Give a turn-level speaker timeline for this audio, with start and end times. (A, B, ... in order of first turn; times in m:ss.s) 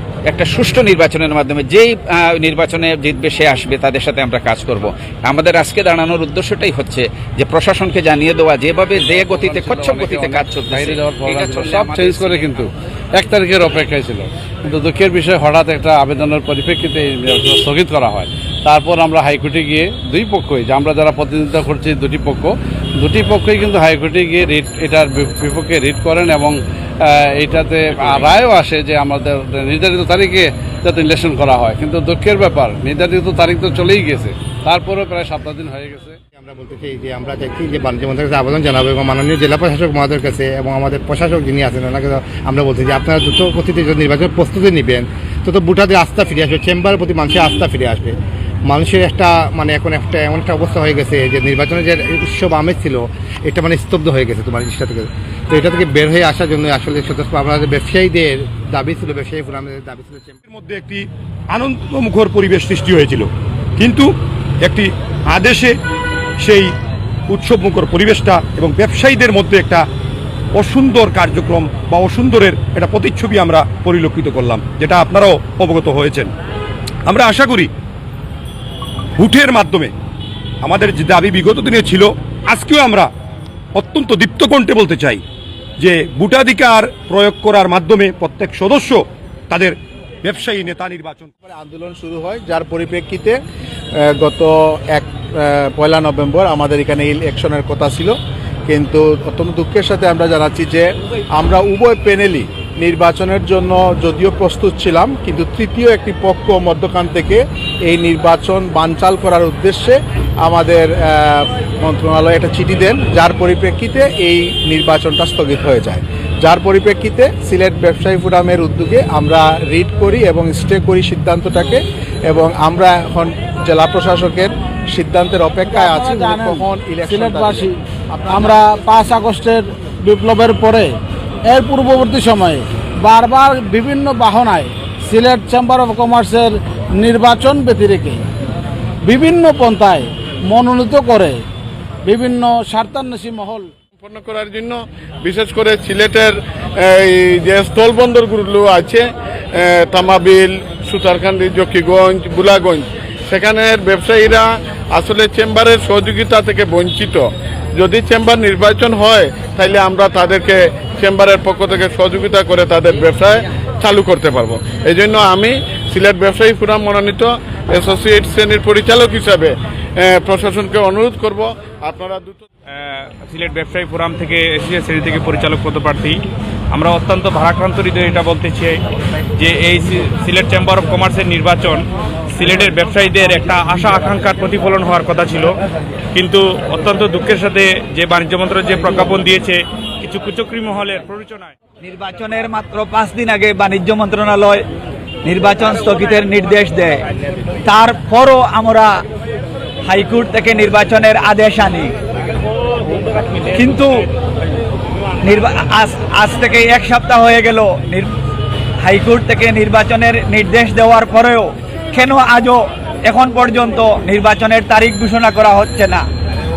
0:00.3-0:12.7 A
0:08.9-0:36.2 B
0:28.0-0:28.2 A
0:36.4-1:00.4 C
1:00.5-1:04.1 D
1:04.6-1:05.7 D
1:06.4-1:06.7 D
1:07.3-1:09.8 D
1:10.6-1:16.3 D
1:17.1-1:17.7 D
1:19.2-1:19.9 D
1:20.6-1:23.1 D
1:23.8-1:25.2 D
1:25.8-1:31.3 D
1:31.4-1:33.4 E
1:34.1-1:38.2 E
1:38.7-2:08.6 E
2:05.7-2:07.8 F
2:08.3-2:11.0 F
2:11.5-2:18.2 F
2:19.0-2:21.4 F
2:22.0-2:23.7 F
2:24.0-2:37.2 G
2:37.8-2:52.4 G
2:52.8-2:56.2 H
2:56.7-2:58.8 H
2:59.4-3:01.8 H
3:02.4-3:05.5 H
3:06.2-3:11.5 H
3:11.8-3:14.6 I
3:15.2-3:17.0 I
3:17.7-3:18.9 I
3:19.9-3:22.0 I
3:23.5-3:24.1 I
3:25.2-3:28.1 I
3:28.8-3:36.1 I